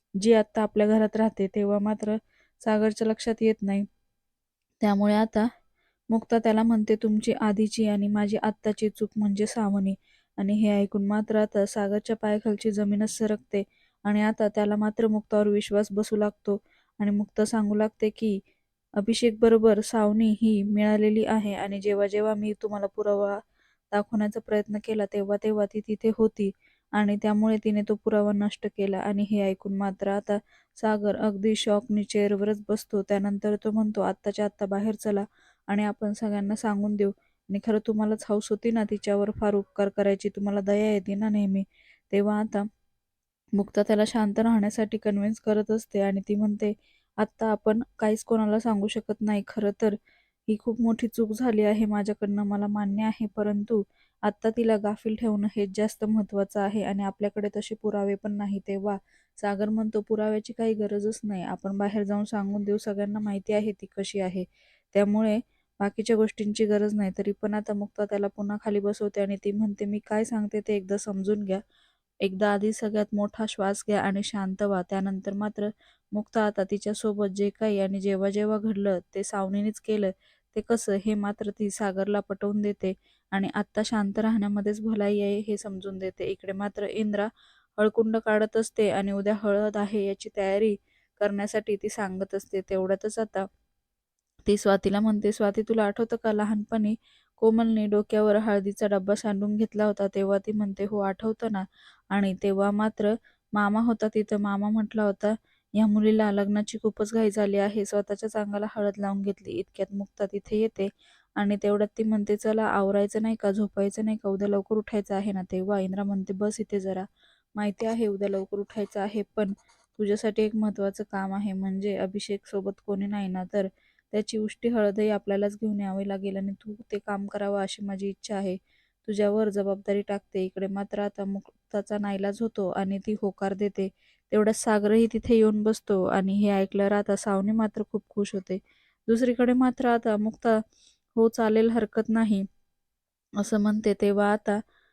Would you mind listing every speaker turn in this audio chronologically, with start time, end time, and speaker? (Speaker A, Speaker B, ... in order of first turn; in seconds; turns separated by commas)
Speaker A: 0.2-3.9, Speaker A: 4.8-5.5, Speaker A: 6.1-18.4, Speaker A: 19.0-23.4, Speaker A: 23.9-42.7, Speaker A: 43.6-50.0, Speaker A: 50.5-71.6, Speaker A: 72.2-93.5, Speaker A: 94.5-140.6, Speaker A: 141.2-142.4, Speaker A: 143.4-144.6